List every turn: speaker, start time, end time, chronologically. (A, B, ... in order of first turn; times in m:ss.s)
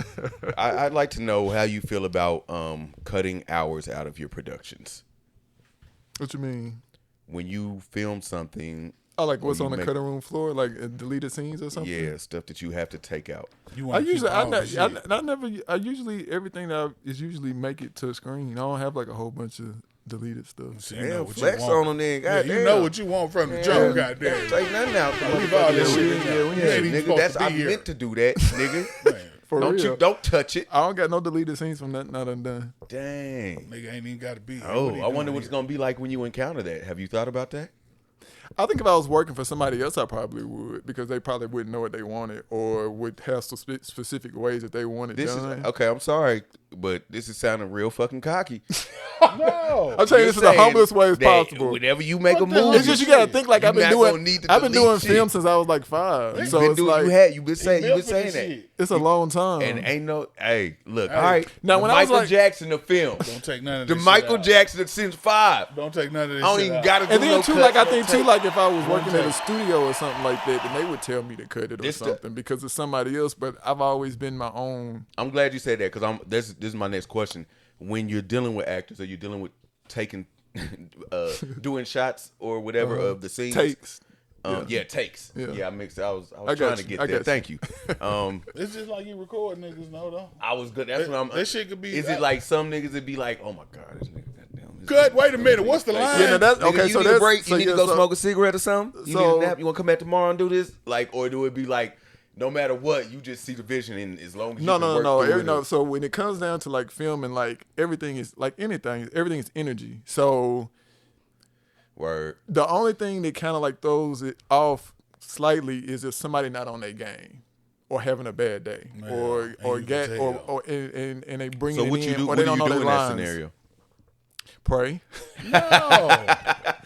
0:00.5-0:05.0 A
0:06.2-0:06.8 B
0:07.3-0:09.9 A
0:09.2-0:12.1 B
0:11.7-0:13.5 A
0:13.7-0:15.0 C
0:13.9-0:20.8 B
0:20.7-0:27.9 C
0:20.9-0:22.9 A
0:23.5-0:29.0 A
0:23.6-0:24.1 B
0:25.3-0:27.0 B
0:28.5-0:30.0 B
0:29.0-0:29.4 C
0:29.6-0:30.7 A
0:30.7-0:32.7 B
0:32.9-0:33.7 A
0:33.7-0:35.5 C
0:34.6-0:37.7 A
0:38.6-0:45.7 B
0:45.1-0:48.6 A
0:49.3-0:50.1 C
0:49.9-0:51.8 B
0:50.0-0:55.3 A
0:52.3-0:53.4 C
0:52.7-0:57.2 B
0:56.3-1:05.7 A
0:56.3-0:56.6 C
0:57.6-0:58.7 C
0:58.8-0:59.9 B
1:01.1-1:01.5 C
1:01.5-1:02.3 B
1:03.2-1:04.5 C
1:05.7-1:07.0 C
1:06.4-1:08.3 A
1:07.1-1:15.1 B
1:09.0-1:09.3 C
1:11.8-1:12.2 A
1:15.2-1:23.8 A
1:22.8-1:24.8 B
1:24.4-1:28.5 A
1:25.3-1:25.6 B
1:26.4-1:28.0 B
1:28.5-1:30.4 C
1:30.4-1:45.6 A
1:31.0-1:32.3 C
1:34.9-1:36.5 C
1:36.1-1:38.1 B
1:38.9-1:39.6 B
1:44.6-1:50.7 B
1:52.0-1:52.4 A
1:52.5-2:03.4 B
1:58.9-2:00.5 C
2:01.7-2:03.5 A
2:04.6-2:06.0 B
2:05.4-2:06.4 C
2:06.4-2:06.8 A